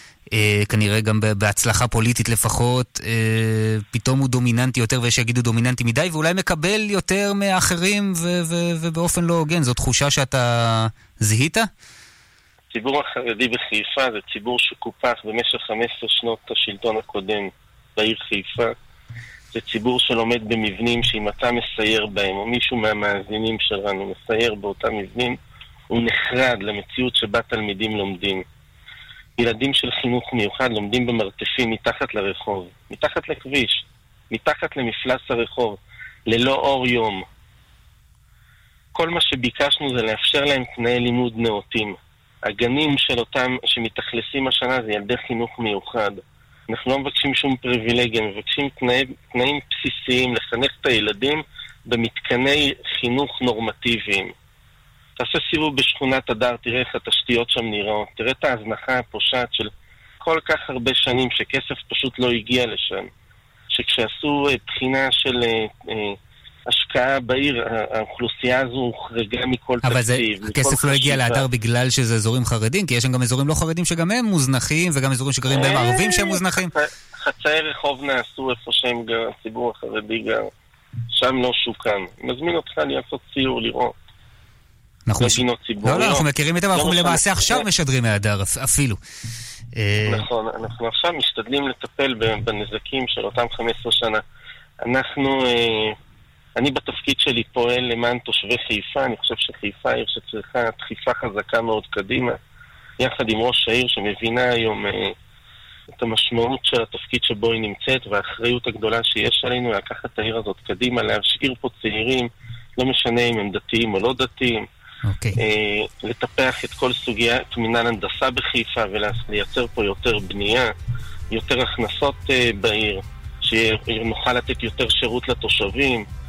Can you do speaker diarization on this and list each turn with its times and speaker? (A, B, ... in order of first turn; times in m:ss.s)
0:00.3-0:11.7 A
0:12.7-0:18.7 B
0:19.5-0:25.4 B
0:25.9-0:28.4 B
0:29.4-0:35.8 B
0:36.3-0:37.2 B
0:38.9-0:42.0 B
0:42.5-0:54.3 B
0:55.2-0:59.7 B
1:00.2-1:03.1 B
1:03.7-1:06.2 B
1:06.7-1:11.4 B
1:09.8-1:16.7 A
1:15.5-1:20.5 B
1:21.1-1:23.9 B
1:25.1-1:29.0 A
1:25.2-1:27.6 B
1:29.8-1:30.3 A
1:30.0-1:34.2 B
1:34.8-1:35.9 B
1:36.6-1:42.4 B
1:43.0-1:45.1 B
1:46.0-1:54.6 B
1:55.1-1:55.4 A
1:55.4-2:00.7 B
2:01.3-2:06.0 B